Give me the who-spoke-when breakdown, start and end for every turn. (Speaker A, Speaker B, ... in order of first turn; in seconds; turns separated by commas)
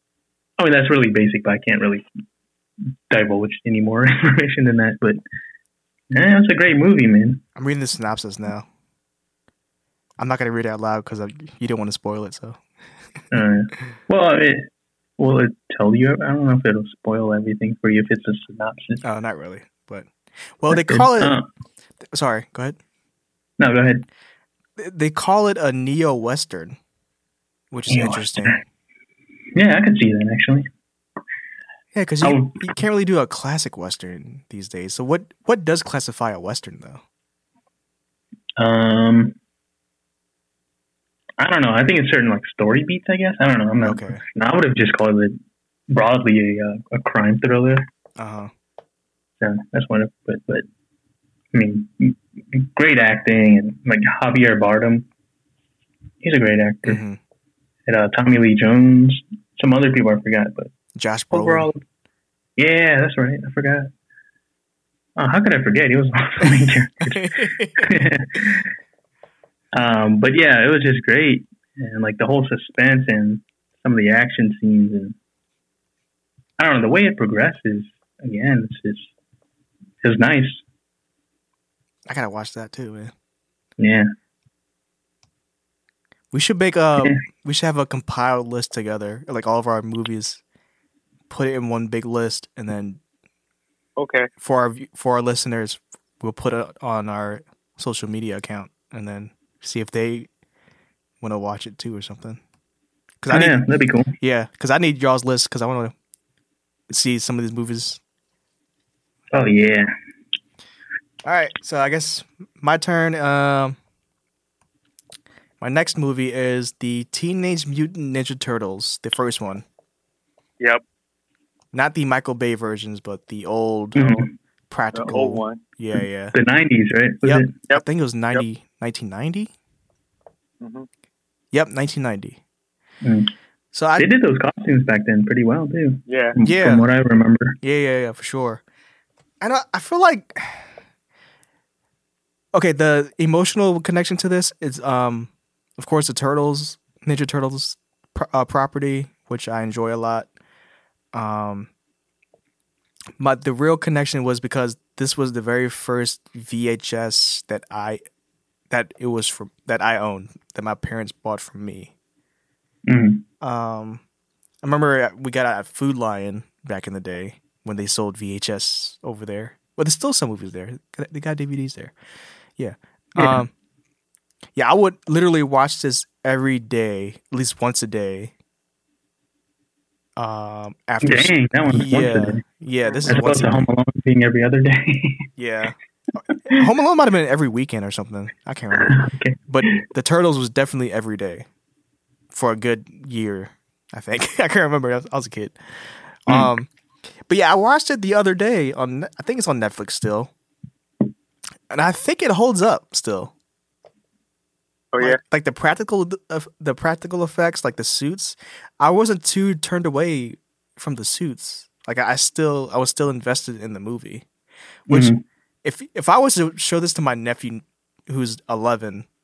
Speaker A: 0.6-2.1, Speaker A: 3.1-5.2, Speaker A: 6.1-7.4, Speaker B: 7.6-8.7, Speaker B: 10.2-12.6, Speaker A: 13.3-19.0, Speaker B: 19.0-21.4, Speaker A: 20.7-21.5, Speaker B: 22.0-22.8, Speaker A: 23.6-24.1, Speaker B: 24.8-26.8, Speaker B: 27.7-28.6, Speaker A: 27.9-28.6, Speaker A: 29.6-30.7, Speaker B: 31.9-37.0, Speaker A: 32.2-32.7, Speaker A: 38.6-39.4, Speaker A: 41.4-45.4, Speaker B: 43.8-44.2, Speaker A: 45.9-47.9, Speaker B: 48.2-48.5, Speaker A: 49.4-50.7, Speaker A: 51.5-55.1, Speaker A: 56.2-57.0, Speaker B: 56.9-57.2, Speaker A: 57.9-60.7, Speaker B: 61.0-61.7, Speaker A: 61.3-61.8, Speaker A: 62.6-63.9, Speaker A: 65.2-68.7, Speaker B: 67.1-68.0, Speaker A: 69.7-75.2, Speaker A: 76.6-79.1, Speaker A: 80.0-80.6, Speaker B: 82.1-83.1, Speaker A: 83.8-84.1, Speaker B: 86.3-90.4, Speaker B: 91.3-93.0, Speaker C: 94.0-94.3, Speaker B: 94.4-100.3, Speaker B: 101.2-102.4, Speaker B: 103.2-103.6, Speaker A: 103.3-104.2, Speaker B: 104.2-105.9, Speaker B: 106.9-108.0, Speaker A: 109.3-109.9, Speaker B: 111.2-113.8, Speaker B: 115.6-119.7, Speaker B: 121.7-126.3, Speaker A: 124.0-124.3, Speaker C: 124.9-125.6, Speaker A: 126.3-127.5, Speaker B: 127.2-129.5, Speaker C: 127.7-128.4, Speaker C: 130.6-130.9, Speaker B: 131.5-132.4, Speaker A: 133.0-133.3, Speaker B: 133.7-134.1, Speaker A: 134.0-137.6, Speaker C: 136.1-136.4, Speaker B: 136.4-136.8, Speaker B: 137.6-138.6, Speaker B: 139.4-140.7, Speaker B: 142.5-150.3, Speaker B: 151.1-151.7, Speaker B: 153.2-158.0, Speaker B: 158.7-161.9, Speaker A: 162.9-163.2, Speaker B: 163.4-164.0, Speaker B: 164.6-171.9, Speaker B: 172.6-173.5, Speaker A: 173.2-173.4, Speaker B: 174.6-178.3, Speaker B: 180.2-183.7, Speaker A: 181.0-182.4, Speaker C: 182.9-183.2, Speaker A: 183.1-185.3, Speaker B: 185.4-185.8, Speaker B: 186.5-191.5, Speaker A: 188.8-189.8, Speaker B: 192.3-196.7, Speaker B: 197.3-200.3, Speaker B: 201.7-203.3, Speaker C: 204.9-205.2, Speaker B: 205.0-214.3, Speaker B: 214.9-215.1, Speaker A: 214.9-215.2, Speaker B: 215.6-219.1